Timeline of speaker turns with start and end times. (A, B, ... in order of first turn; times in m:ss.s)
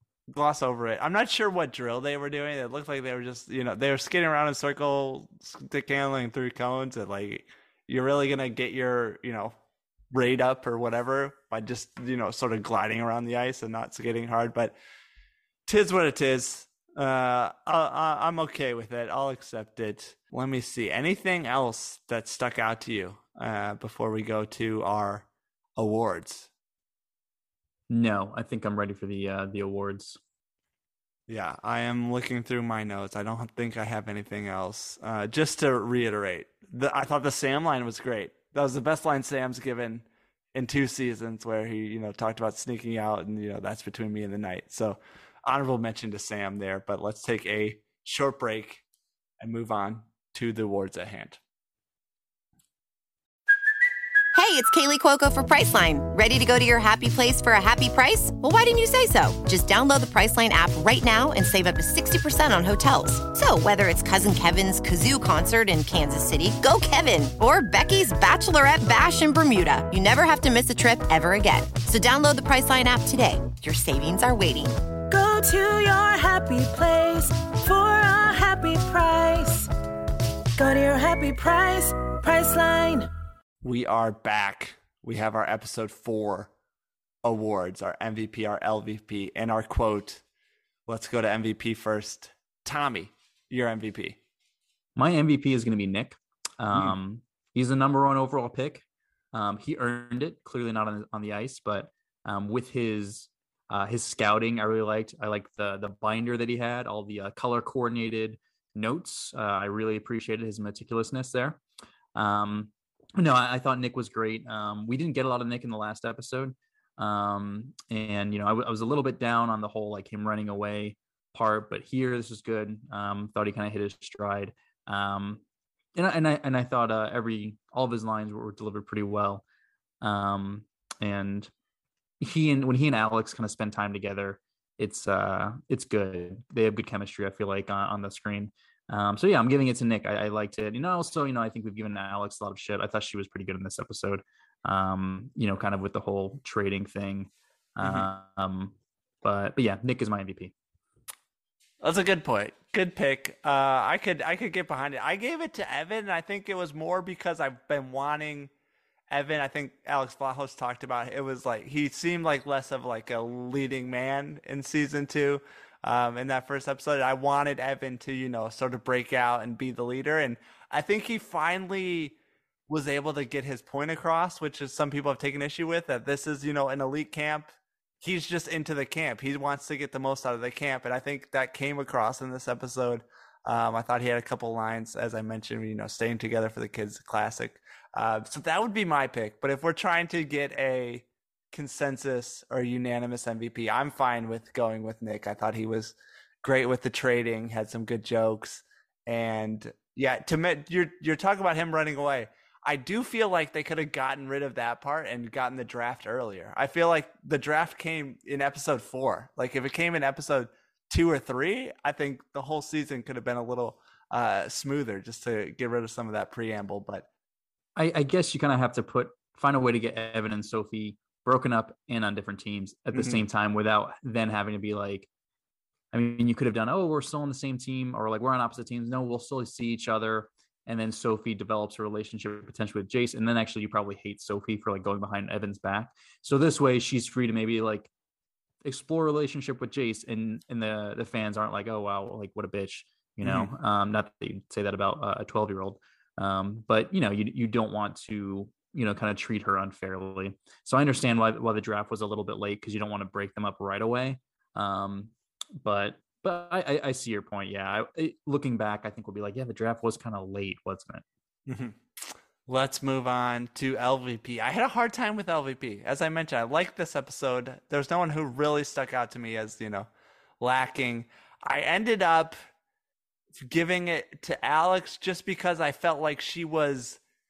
0:00.3-0:09.5 A
0:10.1-0:14.8 A
0:15.7-0:26.5 A
0:27.9-0:30.2 B
0:31.3-0:48.8 A
0:49.4-0:51.4 A
0:54.3-1:14.8 C
1:15.1-1:19.7 D
1:20.6-1:23.1 D
1:23.6-1:26.5 A
1:27.2-1:30.2 A
1:30.9-1:34.2 A
1:35.0-1:51.6 B
1:52.1-2:05.4 B
2:05.9-2:09.4 B
2:10.0-2:11.5 B
2:12.2-2:30.5 B
2:27.8-2:28.1 A
2:31.8-2:38.5 A
2:39.1-2:52.1 A
2:52.7-3:37.0 A
3:37.8-3:45.1 B
3:42.9-3:43.2 A
3:45.9-3:57.9 B
3:58.6-4:21.0 B
4:03.2-4:03.5 A
4:21.5-4:21.8 A
4:22.5-4:29.9 A
4:30.4-4:32.4 A
4:33.3-4:37.0 A